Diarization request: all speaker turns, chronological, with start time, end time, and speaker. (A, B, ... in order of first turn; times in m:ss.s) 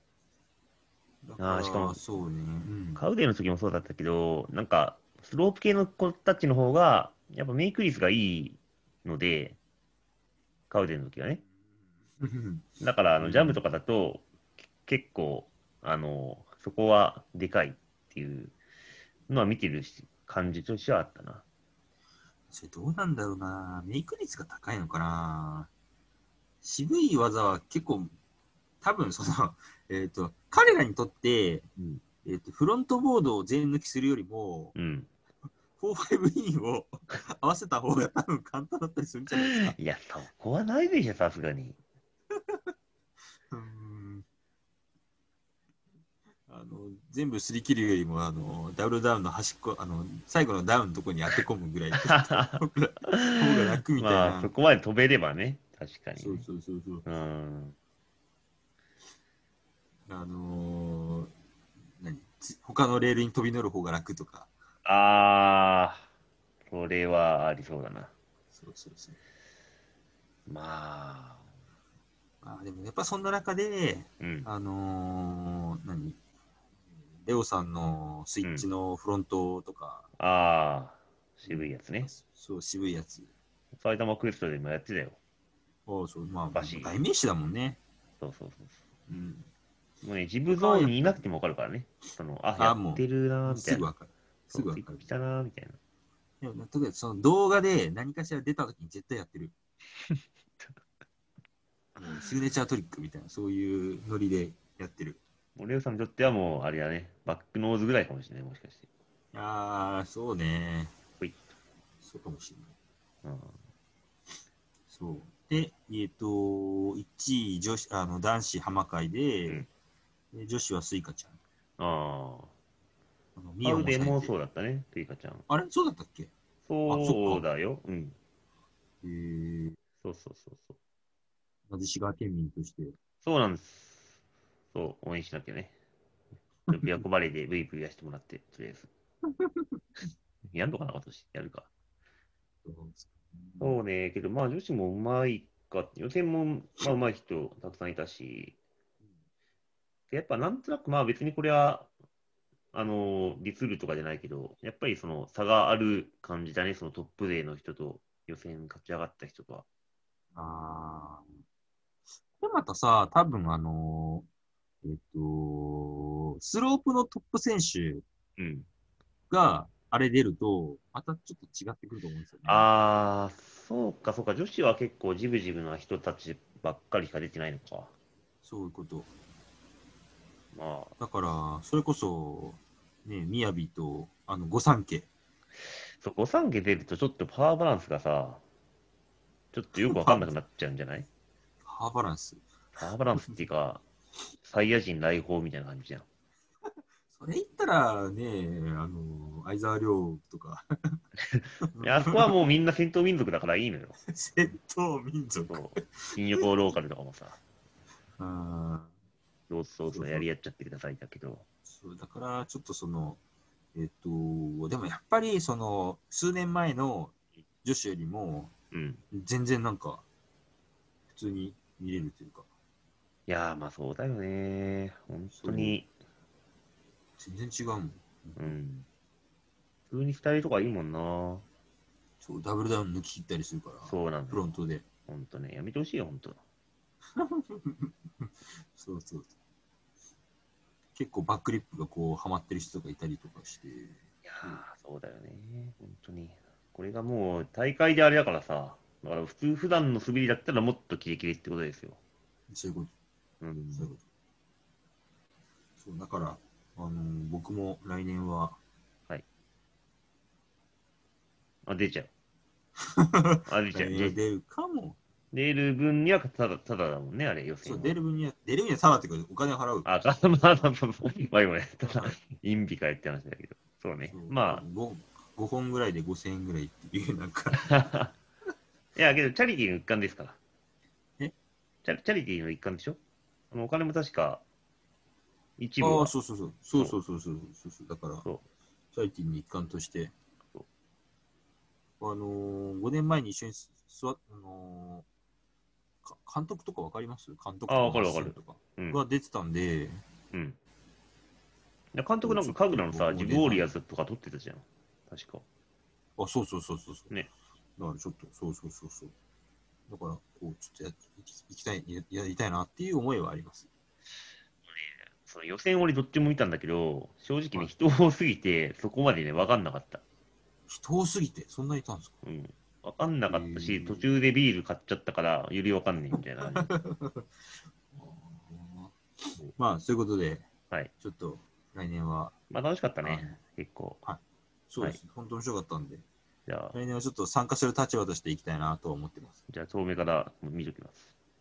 0:01.2-0:03.1 A
0:01.4-0:02.1 B
0:03.0-0:09.6 B
0:10.7-0:11.4 B
0:12.2-0:12.7 A
0:12.8-0:14.3 B
0:13.2-0:13.6 A
0:14.8-0:18.6 B
0:19.3-0:21.4 B
0:22.5-0:25.7 A
0:26.6-0:28.1 A
0:28.8-0:31.7 A
0:32.2-0:34.8 A
0:34.8-0:35.1 B
0:35.8-0:39.8 A
0:39.4-0:41.8 B
0:43.5-0:44.2 A
0:46.5-0:54.5 A
0:52.0-0:56.4 B
0:56.1-0:57.0 A
0:57.0-0:57.8 B
1:00.1-1:01.3 A
1:02.0-1:04.5 A
1:04.8-1:06.0 B
1:06.7-1:08.1 B
1:08.5-1:09.2 A
1:10.5-1:11.4 B
1:12.4-1:16.2 A
1:14.2-1:14.5 B
1:17.2-1:20.0 A
1:20.2-1:22.1 B
1:21.5-1:23.3 A
1:23.8-1:25.2 B
1:25.9-1:27.8 A
1:26.5-1:27.0 B
1:28.2-1:28.8 B
1:29.1-1:29.5 A
1:30.0-1:33.9 B
1:30.5-1:31.2 A
1:32.6-1:35.1 A
1:34.5-1:35.8 B
1:36.4-1:39.5 A
1:40.1-1:40.7 B
1:42.0-1:45.2 A
1:45.6-1:48.8 B
1:49.3-1:50.9 A
1:52.0-1:52.7 A
1:53.2-1:53.6 B
1:54.9-1:59.6 A
2:00.3-2:01.4 A
2:01.8-2:02.5 B
2:03.4-2:04.3 A
2:03.6-2:05.4 B
2:05.5-2:06.3 A
2:06.7-2:08.2 B
2:06.9-2:07.4 A
2:09.0-2:09.8 A
2:10.0-2:10.8 B
2:11.7-2:12.9 A
2:13.2-2:14.0 B
2:14.7-2:15.7 B
2:16.7-2:18.9 B
2:16.7-2:17.0 A
2:19.4-2:19.8 A
2:20.5-2:21.7 B
2:22.6-2:23.8 A
2:23.6-2:28.6 B
2:30.1-2:31.9 B
2:32.7-2:39.6 B
2:40.3-2:41.3 A
2:42.4-2:44.3 A
2:44.8-2:48.0 A
2:48.4-2:48.7 B
2:49.3-2:52.7 A
2:52.4-2:57.9 B
2:58.4-2:59.1 A
3:00.5-3:00.9 B
3:01.0-3:05.1 A
3:06.0-3:08.4 B
3:09.5-3:11.1 B
3:09.8-3:10.3 A
3:11.6-3:12.4 A
3:12.8-3:13.8 B
3:14.4-3:16.0 B
3:17.1-3:21.0 A
3:21.3-3:24.0 B
3:21.8-3:22.3 A
3:24.1-3:25.8 A
3:25.5-3:27.4 B
3:28.2-3:28.9 A
3:29.5-3:31.4 B
3:29.9-3:30.3 A
3:31.6-3:33.2 A
3:33.8-3:37.1 A
3:37.6-3:38.5 A
3:38.7-3:39.0 B
3:39.1-3:40.0 A
3:41.1-3:42.4 A
3:43.3-3:45.9 B
3:45.3-3:45.8 A
3:47.2-3:48.5 A
3:48.4-3:48.8 B
3:49.9-3:51.4 B
3:52.2-3:54.8 A
3:53.8-3:54.4 B
3:55.1-3:56.4 B
3:57.2-3:59.3 A
4:00.9-4:04.6 A
4:04.2-4:12.0 B
4:12.5-4:12.9 A
4:13.4-4:13.9 B
4:13.7-4:14.0 A
4:15.8-4:18.6 A
4:21.6-4:22.1 B
4:23.0-4:25.0 A
4:23.5-4:24.2 B
4:25.3-4:27.9 B
4:27.6-4:30.7 A
4:29.8-4:34.6 B
4:31.8-4:32.2 A
4:34.1-4:37.7 A
4:37.5-4:38.1 B
4:39.0-4:40.4 B
4:41.8-4:43.0 B
4:43.5-4:44.4 B
4:45.6-4:46.1 B
4:45.8-4:48.2 A
4:48.9-4:50.1 A
4:52.0-4:55.0 A
4:56.0-5:00.0 A
4:57.7-4:59.0 B
5:02.0-5:05.4 B
5:02.2-5:03.7 A
5:06.2-5:07.1 A
5:07.8-5:09.1 A
5:09.9-5:13.7 A
5:14.8-5:20.0 B
5:20.7-5:22.1 A
5:22.2-5:26.7 B
5:23.3-5:24.1 A
5:26.4-5:27.3 A
5:27.9-5:29.0 A
5:29.6-5:30.5 A
5:31.0-5:32.3 A
5:32.5-5:34.0 B
5:33.0-5:33.4 A
5:34.0-5:36.0 A
5:36.5-5:36.8 B
5:36.7-5:39.4 A
5:39.5-5:41.1 B